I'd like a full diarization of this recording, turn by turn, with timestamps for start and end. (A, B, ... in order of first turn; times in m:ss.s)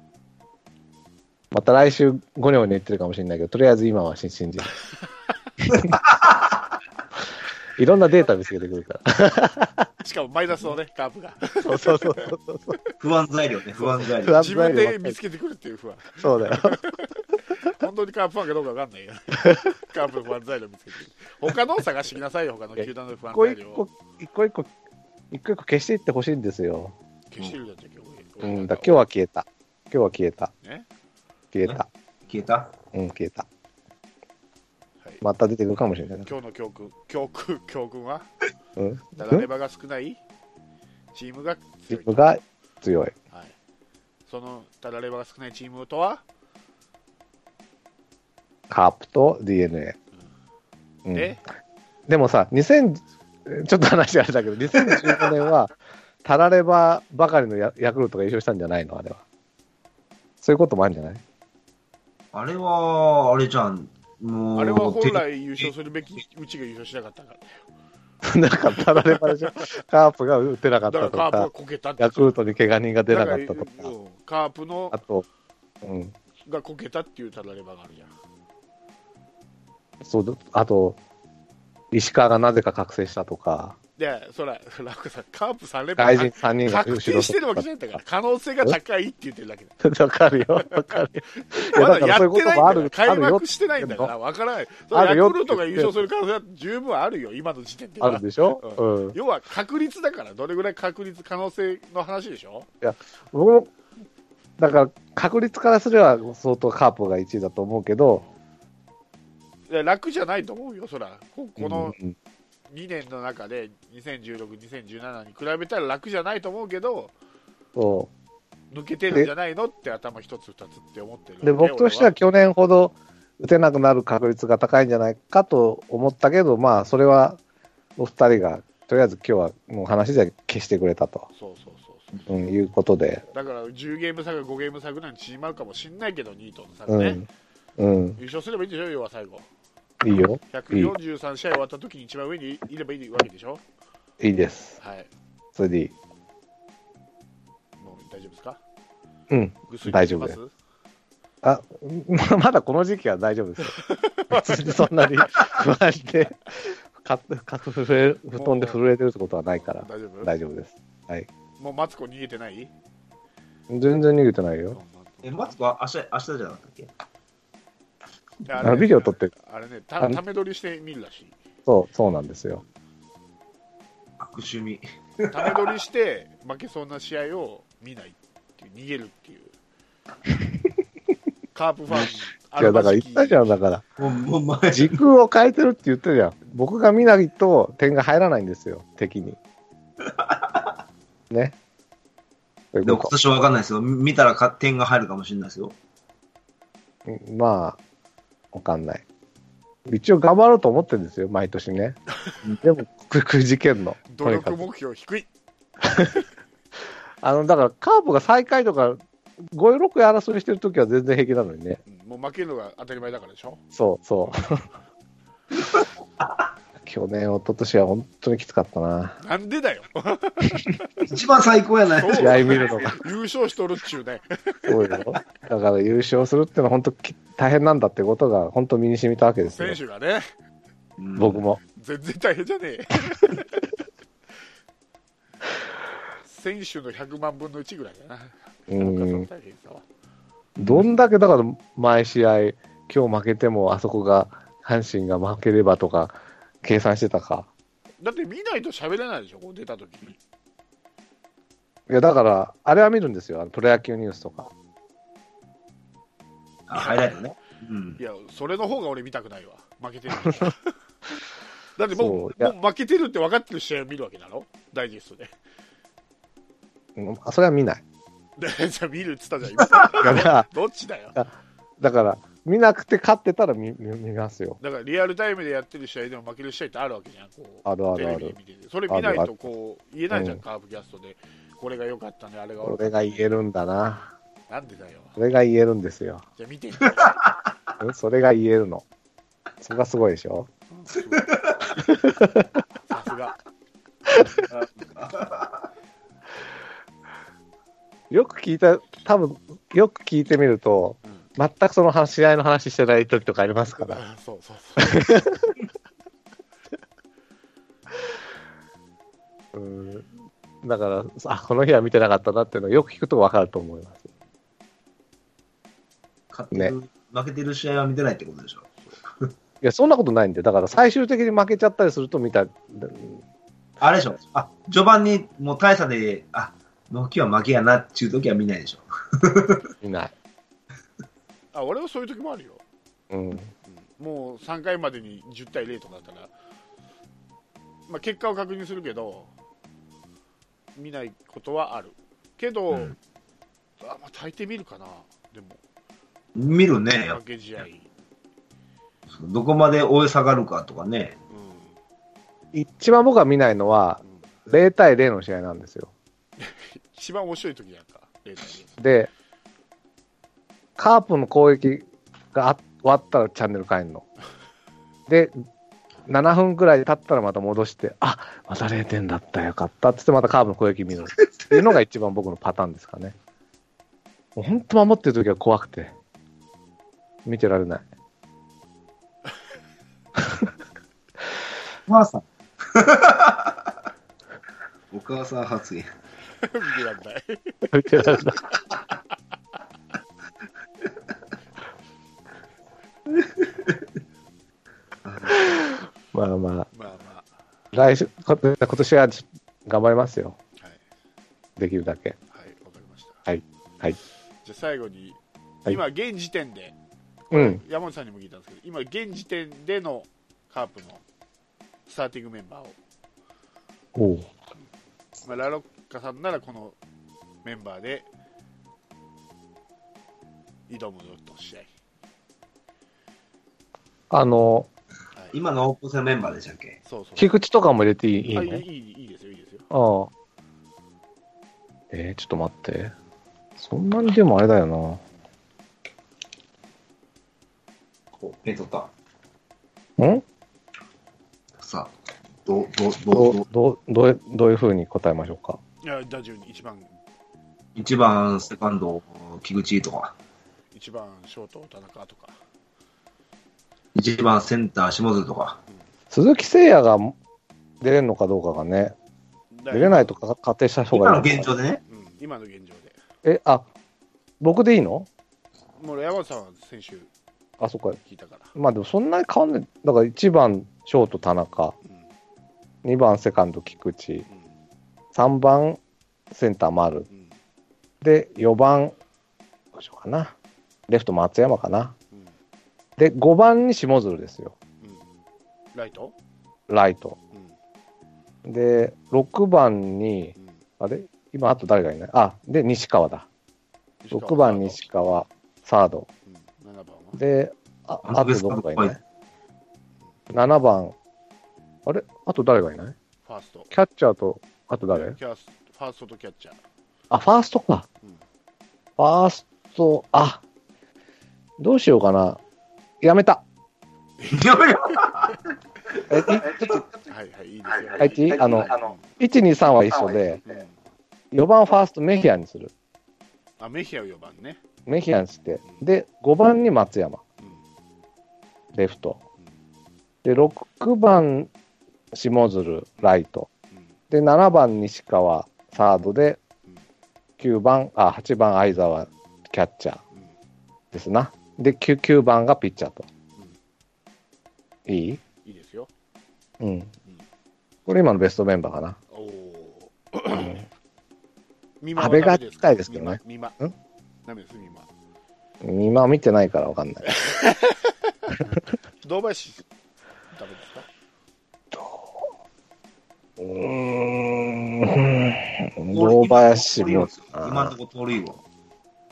0:01.5-0:04.7 A
0:07.8-0:09.9 A
0:10.0-0:12.3 B
0:11.6-0:12.8 A
0:13.0-0:14.4 C
0:13.8-0:23.8 B
0:14.2-0:15.2 A
0:16.2-0:16.8 A
0:22.8-0:24.7 A
0:25.3-0:26.9 A
0:27.3-0:29.0 B
0:28.4-0:30.5 A
0:30.6-0:30.9 B
0:31.5-0:31.9 A
0:31.6-0:32.7 C
0:32.9-0:33.5 A
0:35.2-0:36.3 A
0:36.2-0:38.3 B
0:38.8-0:39.5 A
0:39.2-0:40.2 B
0:41.1-0:42.2 B
0:41.9-0:43.1 A
0:44.3-0:46.2 B
0:48.7-0:50.0 A
0:51.1-0:51.4 A
0:51.1-0:51.4 B
0:52.1-0:55.7 A
0:56.2-0:59.2 A
1:00.4-1:01.2 A
1:02.3-1:05.7 C
1:04.6-1:07.6 B
1:08.2-1:13.9 A
1:08.8-1:09.6 B
1:10.9-1:12.4 B
1:13.1-1:15.0 B
1:14.9-1:15.2 A
1:15.8-1:16.1 A
1:16.4-1:18.1 B
1:20.0-1:21.0 A
1:21.9-1:23.8 A
1:24.0-1:29.7 B
1:26.0-1:28.0 A
1:29.8-1:34.1 A
1:30.6-1:42.7 B
1:34.9-1:36.0 A
1:38.0-1:39.2 A
1:42.8-1:43.7 A
1:44.6-1:48.2 A
1:49.7-1:52.0 B
1:51.6-1:52.1 A
1:52.7-1:57.1 B
1:57.8-1:58.1 A
1:58.7-2:02.1 B
2:01.4-2:07.4 A
2:08.0-2:11.3 A
2:11.4-2:12.3 B
2:12.3-2:13.2 A
2:13.3-2:17.2 B
2:16.9-2:17.2 A
2:17.8-2:18.2 A
2:18.2-2:19.5 B
2:20.0-2:20.9 A
2:20.5-2:23.6 B
2:24.2-2:24.8 A
2:24.8-2:25.1 B
2:25.6-2:25.9 A
2:27.8-2:28.6 B
2:29.3-2:30.4 A
2:29.7-2:30.5 B
2:31.4-2:33.8 A
2:33.8-2:35.1 B
2:34.3-2:41.3 A
2:38.4-2:38.8 B
2:39.6-2:40.3 B
2:41.6-2:42.7 B
2:43.7-2:44.8 A
2:44.7-2:45.5 B
2:45.2-2:46.9 C
2:48.4-2:51.4 B
2:48.6-2:49.3 A
2:51.6-2:52.6 A
2:54.2-2:55.6 C
2:55.3-2:59.5 B
3:01.5-3:03.6 B
3:02.6-3:03.8 A
3:04.0-3:05.0 C
3:04.7-3:09.4 A
3:10.3-3:10.6 C
3:11.3-3:11.6 A
3:12.7-3:13.1 A
3:12.8-3:15.7 C
3:17.1-3:17.8 A
3:18.5-3:19.0 A
3:19.9-3:22.0 A
3:22.6-3:24.6 A
3:24.1-3:25.3 B
3:27.2-3:31.8 A
3:31.9-3:33.6 B
3:33.7-3:34.6 A
3:36.8-3:39.2 A
3:39.2-3:40.6 B
3:41.0-3:42.6 C
3:41.9-3:44.6 B
3:42.2-3:43.0 A
3:44.7-3:49.8 A
3:49.4-3:50.3 B
3:51.0-3:51.4 C
3:51.2-3:51.6 A
3:51.8-3:53.6 B
3:56.2-3:59.8 B
3:58.7-3:59.3 A
4:00.6-4:07.5 A
4:00.6-4:00.8 C
4:08.0-4:10.2 B
4:11.9-4:14.5 A
4:16.7-4:18.0 C
4:16.7-4:17.2 B
4:18.0-4:20.7 B
4:21.8-4:25.3 B
4:21.9-4:22.5 A
4:27.0-4:27.8 A
4:28.4-4:31.2 B
4:30.0-4:30.5 A
4:31.8-4:34.6 A
4:34.6-4:43.3 B
4:37.6-4:38.4 A
4:38.9-4:39.4 A
4:40.1-4:40.4 A
4:42.6-4:44.1 A
4:44.5-4:45.2 B
4:45.2-4:46.2 A
4:46.4-4:47.2 B
4:47.8-4:48.8 A
4:49.6-4:50.5 A
4:50.7-4:51.3 B
4:51.2-4:51.6 C
4:51.9-4:52.5 A
4:52.9-4:53.4 B
4:54.5-4:55.6 C
4:58.1-5:04.0 A
5:03.8-5:05.3 B
5:04.8-5:05.5 A
5:09.5-5:10.1 A
5:10.6-5:14.0 A
5:16.3-5:19.3 C
5:19.6-5:23.2 A
5:23.8-5:29.7 C
5:29.8-5:30.1 A
5:31.5-5:32.6 B
5:33.1-5:33.5 A
5:33.7-5:36.3 B
5:37.9-5:39.3 B
5:40.8-5:42.9 B
5:43.8-5:45.6 B
5:46.4-5:47.2 C
5:46.9-5:47.9 B
5:49.1-5:51.2 C
5:51.3-5:51.7 B
5:52.5-5:55.9 A
5:56.4-5:58.8 B
5:58.8-5:59.1 A
6:00.8-6:04.1 A
6:05.1-6:05.3 A
6:06.1-6:13.1 A
6:11.2-6:11.6 C
6:14.4-6:15.9 A
6:17.2-6:17.8 A
6:21.9-6:23.6 C
6:24.9-6:25.9 C
6:26.4-6:27.7 B
6:27.7-6:28.4 A
6:35.0-6:35.4 C
6:36.1-6:36.7 A
6:36.7-6:37.3 B
6:37.7-6:40.4 A
6:41.6-6:42.2 A
6:42.3-6:43.2 B
6:43.3-6:44.0 A
6:44.4-6:46.7 B
6:47.3-6:51.0 B
6:47.3-6:47.6 A
6:51.9-6:52.8 B
6:54.0-6:54.3 A
6:55.2-6:56.8 B
6:57.4-6:58.1 B
7:00.7-7:01.7 B
7:04.1-7:04.7 A
7:05.3-7:06.8 C
7:06.9-7:07.3 B
7:07.2-7:08.6 A
7:08.3-7:09.6 B
7:09.7-7:10.1 A
7:11.9-7:12.9 A
7:13.6-7:15.0 A
7:18.2-7:18.9 C
7:20.0-7:20.2 A
7:21.6-7:21.9 C
7:22.4-7:23.4 C
7:23.1-7:25.6 A
7:25.8-7:26.9 B
7:27.8-7:30.1 C
7:30.7-7:32.4 B
7:33.9-7:35.6 C
7:36.1-7:37.2 A
7:37.8-7:38.9 A
7:39.5-7:40.2 B
7:39.7-7:41.5 A
7:40.9-7:41.8 C
7:41.9-7:43.0 B
7:43.2-7:43.7 A
7:44.4-7:45.1 A
7:45.8-7:47.1 B
7:47.6-7:48.0 A
7:48.0-7:48.5 B
7:48.6-7:51.7 A
7:51.8-7:52.1 B
7:52.8-7:54.2 A
7:54.3-7:54.5 B
7:55.1-7:55.8 A
7:56.3-7:57.1 A
7:57.1-7:57.4 B
7:58.0-7:58.9 A
7:59.7-8:00.3 A
8:00.9-8:01.9 A
8:03.0-8:04.6 A
8:05.7-8:06.1 B
8:06.7-8:07.2 A
8:08.4-8:13.3 A
8:10.4-8:10.6 B
8:14.0-8:14.8 B
8:14.1-8:16.1 A
8:16.3-8:17.2 B
8:17.2-8:19.0 A
8:18.0-8:19.0 C
8:20.3-8:20.9 A
8:21.9-8:22.9 A
8:23.2-8:23.7 B
8:23.7-8:25.2 A
8:24.9-8:26.6 B
8:27.1-8:27.9 A
8:29.0-8:30.4 A
8:31.6-8:32.4 A
8:33.0-8:33.4 A
8:34.2-8:35.1 B
8:34.3-8:35.4 C
8:36.1-8:36.8 A
8:37.1-8:39.0 B
8:38.0-8:40.4 A
8:40.4-8:40.7 B
8:41.3-8:42.7 A
8:43.6-8:44.6 B
8:44.9-8:47.2 A
8:48.7-8:49.2 A
8:50.2-8:51.5 A
8:52.1-8:53.5 A
8:54.1-8:56.4 A
8:57.4-9:00.0 A
9:00.9-9:03.1 A
9:04.9-9:05.2 A
9:05.4-9:05.9 B
9:06.6-9:06.9 A
9:07.9-9:09.0 A
9:09.1-9:10.6 B
9:11.8-9:13.6 B
9:12.0-9:13.7 A
9:14.2-9:14.9 B
9:15.6-9:17.1 A
9:17.0-9:18.3 B
9:19.0-9:19.6 B
9:20.3-9:20.9 B
9:21.7-9:22.1 A
9:23.4-9:27.7 A
9:25.9-9:28.4 C